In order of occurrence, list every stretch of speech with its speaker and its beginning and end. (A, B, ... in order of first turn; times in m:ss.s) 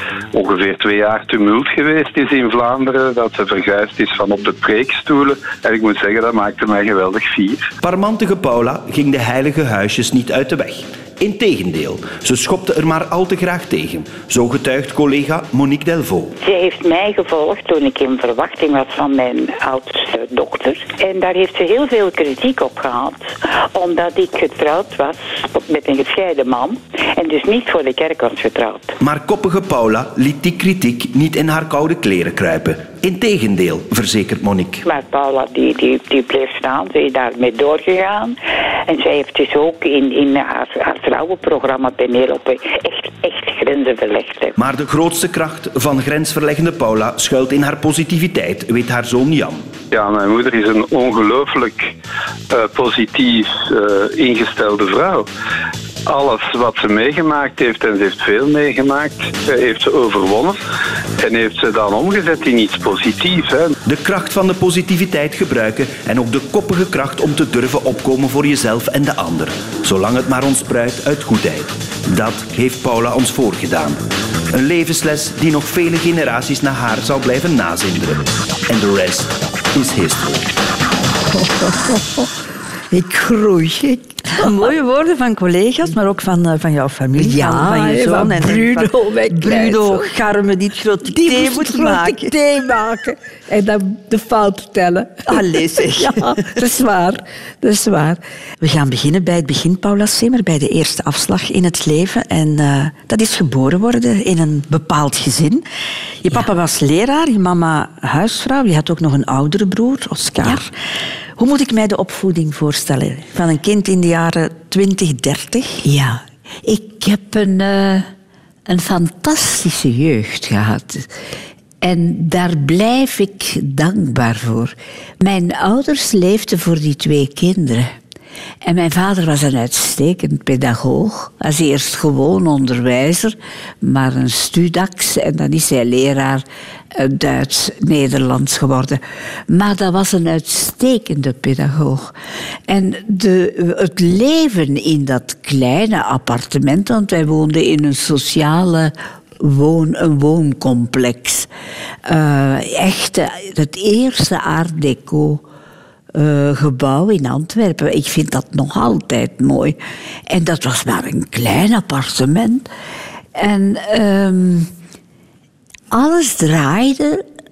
0:00.3-0:07.7 A
0:07.8-0:16.3 B
0:16.4-0:28.9 C
0:29.0-0:34.8 B
0:34.8-0:44.5 C
0:44.6-0:49.6 B
0:49.9-0:51.9 A
0:52.5-0:55.3 A
0:56.0-1:00.6 A
1:01.2-1:03.7 A
1:03.8-1:14.0 B
1:14.5-1:20.5 B
1:21.3-1:22.3 D
1:22.9-1:24.7 D
1:24.3-1:32.3 E
1:27.1-1:30.1 D
1:31.1-1:38.2 D
1:35.3-1:36.4 E
1:38.6-1:45.6 E
1:46.2-1:50.7 E
1:51.4-1:55.8 E
1:55.8-1:58.1 D
1:58.7-2:01.1 D
2:01.8-2:07.9 D
2:08.6-2:22.1 D
2:22.7-2:31.5 D
2:32.0-2:35.4 D
2:36.1-2:42.7 D
2:43.3-2:44.7 D
2:45.9-2:47.2 D